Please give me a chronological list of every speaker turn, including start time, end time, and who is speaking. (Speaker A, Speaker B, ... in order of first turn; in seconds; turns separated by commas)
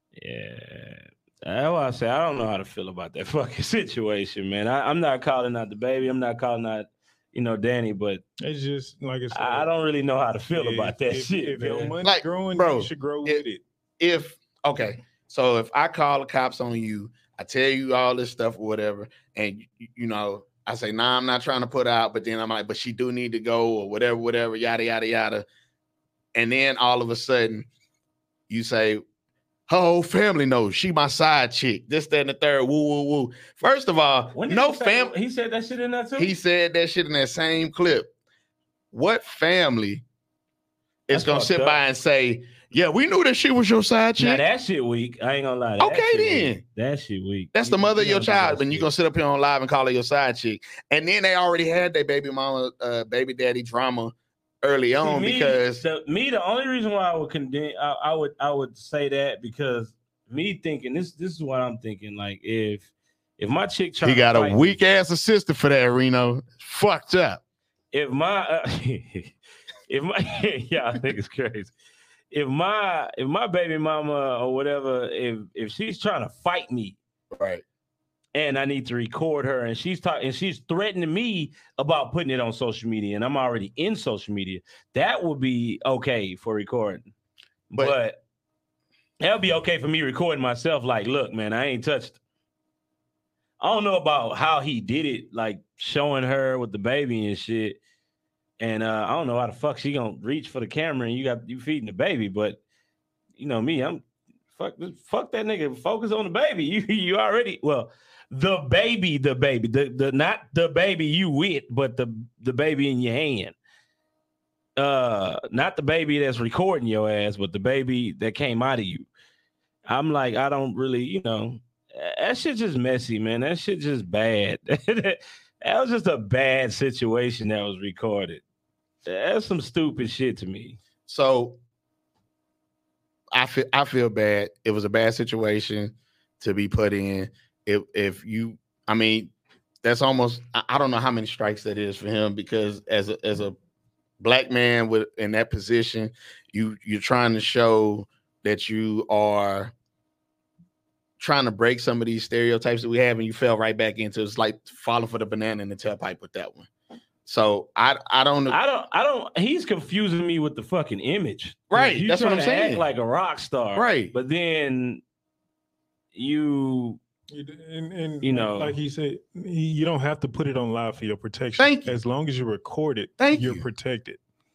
Speaker A: 0.1-8.2, Speaker B: 8.4-9.7, Speaker A: 9.3-11.9, Speaker B: 10.5-13.6, Speaker C: 12.0-13.4, Speaker C: 14.0-25.4, Speaker C: 26.3-27.6, Speaker C: 28.5-29.0, Speaker C: 29.7-35.1, Speaker A: 34.3-36.3, Speaker C: 36.2-38.1, Speaker C: 38.9-40.0, Speaker C: 41.1-44.4, Speaker A: 41.1-41.8, Speaker A: 44.2-48.9, Speaker C: 45.8-46.6, Speaker C: 47.5-55.8, Speaker A: 55.0-64.8, Speaker C: 64.0-67.4, Speaker A: 67.9-69.3, Speaker A: 69.9-71.7, Speaker A: 72.3-77.0, Speaker C: 77.3-77.6, Speaker A: 78.3-87.1, Speaker A: 87.7-88.2, Speaker A: 89.2-92.2, Speaker A: 93.6-97.8, Speaker A: 98.6-102.6, Speaker A: 103.4-104.0, Speaker A: 104.5-113.5, Speaker A: 114.8-119.1, Speaker A: 119.9-128.4, Speaker A: 129.1-130.8, Speaker C: 131.1-131.6, Speaker C: 133.3-139.3, Speaker C: 139.8-143.6, Speaker C: 144.2-149.7, Speaker C: 151.2-156.7, Speaker C: 157.2-158.6, Speaker A: 158.5-165.0, Speaker C: 161.7-162.9, Speaker C: 163.7-164.1, Speaker A: 166.1-167.0, Speaker B: 167.3-174.2, Speaker A: 168.2-168.8, Speaker C: 171.6-171.9, Speaker C: 173.2-173.6